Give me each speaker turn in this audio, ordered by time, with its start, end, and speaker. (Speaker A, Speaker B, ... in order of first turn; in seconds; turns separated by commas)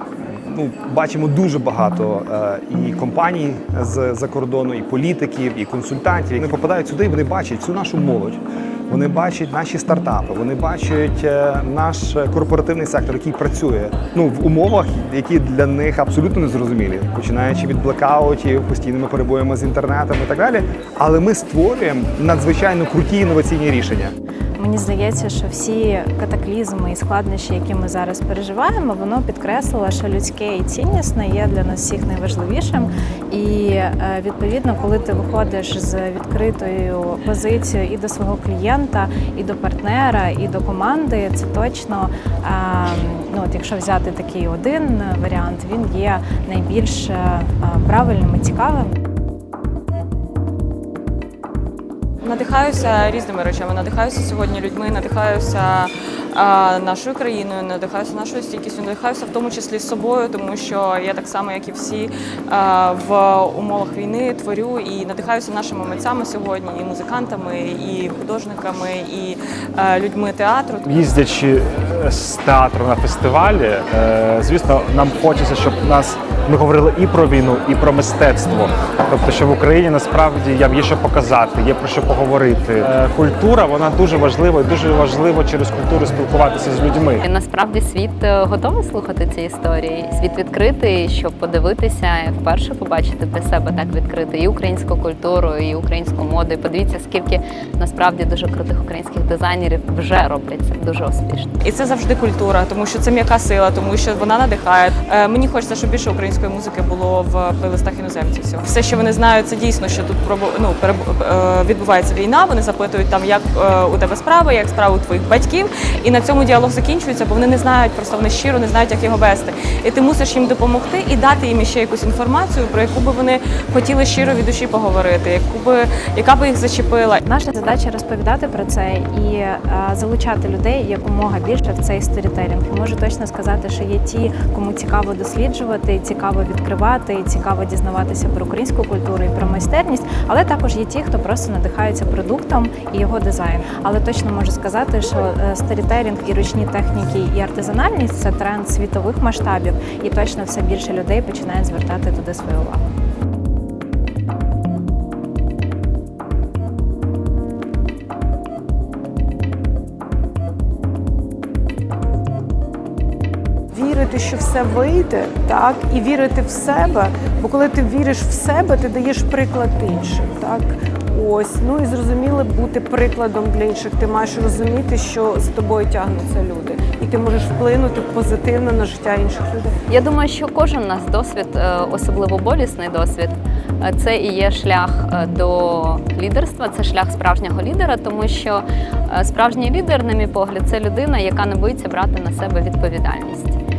Speaker A: 0.2-24.1, Speaker B: 24.6-48.9, Speaker C: 52.2-70.9, Speaker D: 70.9-87.2, Speaker E: 87.2-101.5, Speaker C: 101.6-127.2, Speaker B: 127.2-152.9, Speaker F: 163.8-179.8, Speaker E: 179.9-193.6